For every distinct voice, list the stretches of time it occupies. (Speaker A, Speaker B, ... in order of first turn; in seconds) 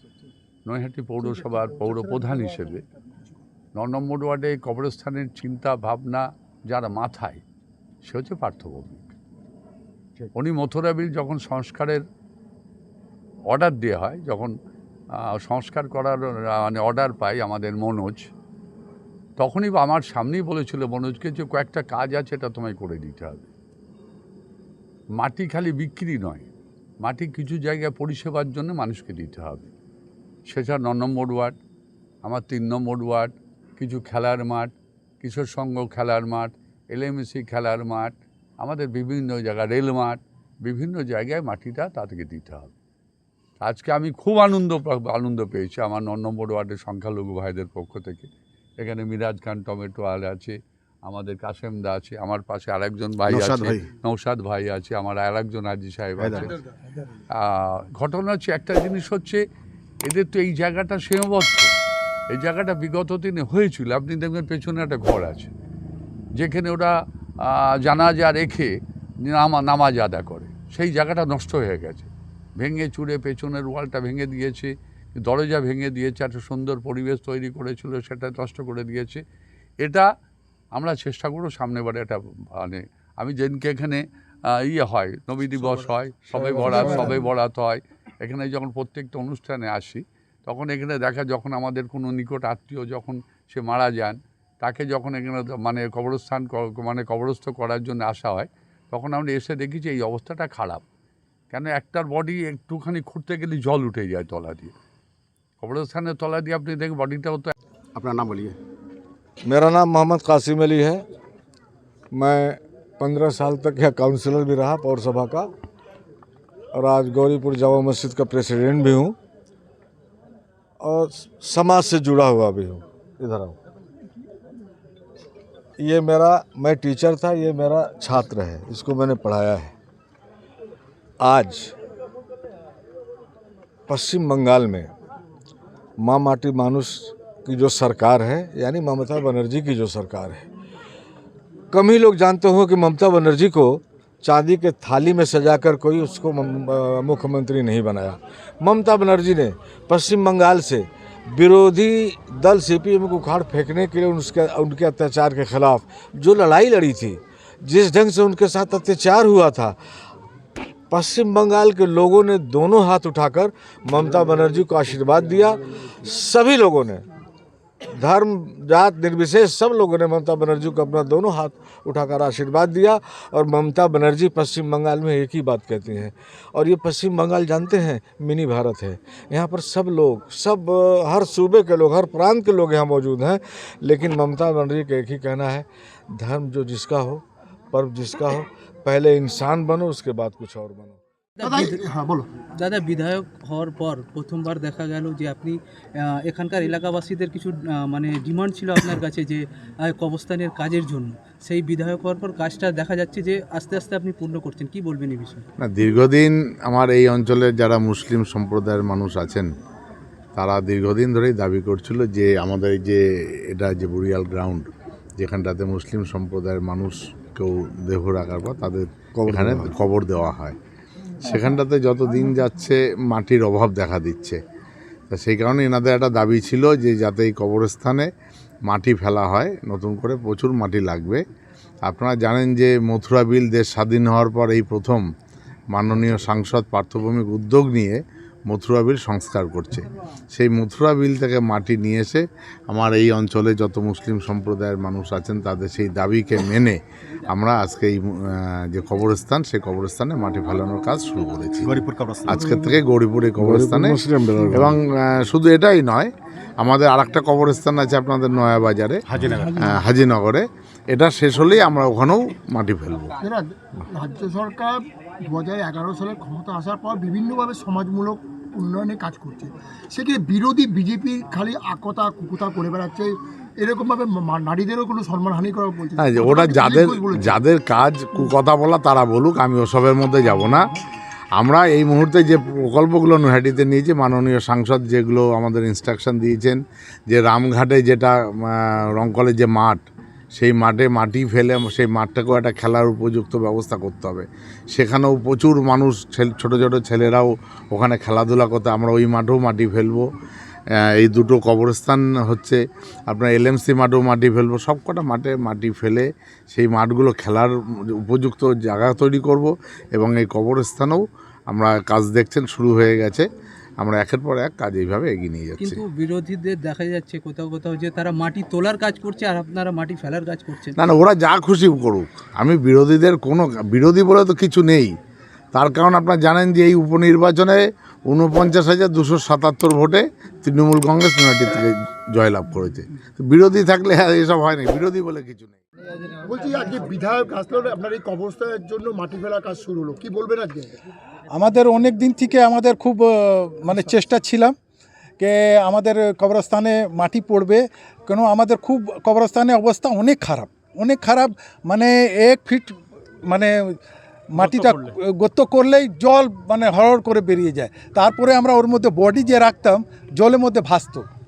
Speaker A: 0.7-2.8, 3.8-7.4, 8.0-9.1, 10.3-12.0, 13.5-14.5, 15.2-18.3, 19.4-23.5, 25.1-26.5, 27.0-29.7, 30.5-31.6, 32.2-42.7, 43.6-48.3, 48.8-56.6, 57.4-59.4, 60.0-61.7, 62.3-65.5, 66.3-68.7, 69.2-79.2, 79.8-80.1, 80.7-100.8, 101.5-104.7, 105.6-107.5
Speaker B: 2.1-2.4, 191.4-192.3, 263.2-277.4, 336.2-340.8
Speaker C: 53.3-53.9, 56.2-56.5, 108.0-108.6, 251.6-252.4, 259.1-259.6, 354.4-354.9
Speaker D: 109.4-111.0, 112.1-115.5, 116.7-119.2, 120.8-123.6, 125.8-129.7, 131.2-131.7, 133.9-134.9, 136.0-140.5, 141.7-159.8, 160.9-167.0, 167.9-191.0, 219.2-219.8, 253.4-254.8
Speaker E: 191.4-191.8, 192.6-205.5, 315.6-321.0
Speaker F: 205.6-209.5, 210.4-220.6, 221.2-224.4, 225.1-228.1, 228.7-231.2, 231.8-235.1, 235.7-263.1, 276.0-280.7, 281.3-300.1, 301.0-313.3, 313.8-315.8, 320.8-324.9, 325.5-335.6
Speaker G: 341.3-344.5, 345.2-352.8, 353.3-353.8, 354.3-361.1